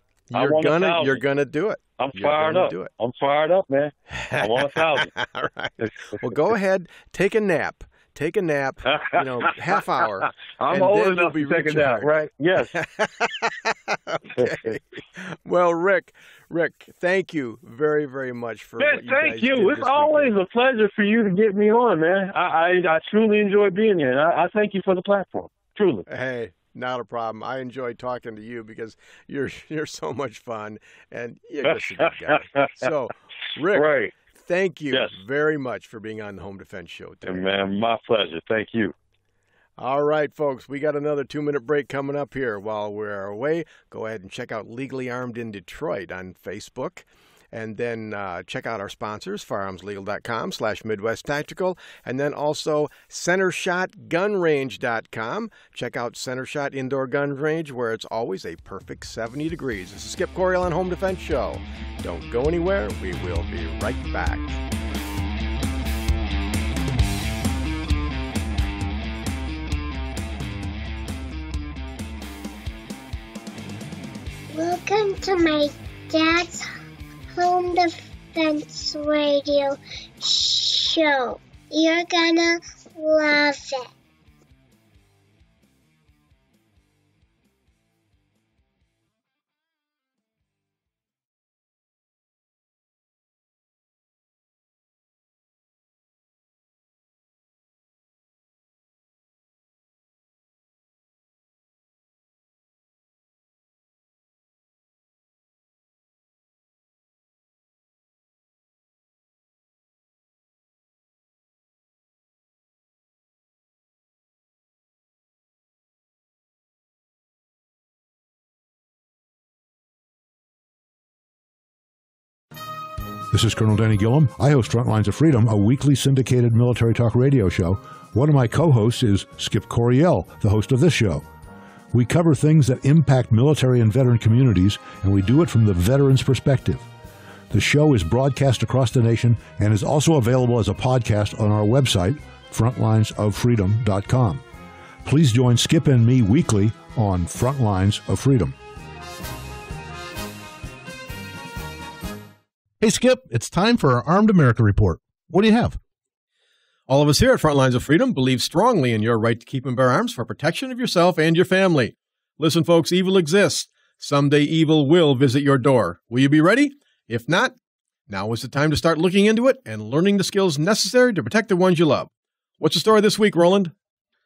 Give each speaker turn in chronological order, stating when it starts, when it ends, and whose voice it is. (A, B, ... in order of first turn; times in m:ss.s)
0:00.3-0:02.9 A
0:00.3-0:01.2 B
0:02.0-0:05.1 B
0:04.1-0:20.3 A
0:05.8-0:06.2 B
0:08.9-0:09.8 B
0:10.6-0:12.8 B
0:14.3-0:14.8 B
0:18.8-0:26.1 B
0:26.1-0:37.4 A
0:32.3-0:32.7 B
0:33.7-0:34.1 B
0:37.2-0:38.9 B
0:39.8-1:04.6 A
1:14.5-1:16.7 C
1:17.3-1:23.9 C
2:03.3-2:11.2 D
2:11.9-2:16.8 D
2:17.5-2:24.4 D
2:25.0-2:28.6 D
2:32.8-2:35.8 E
2:36.9-2:47.5 A
2:48.1-2:53.7 A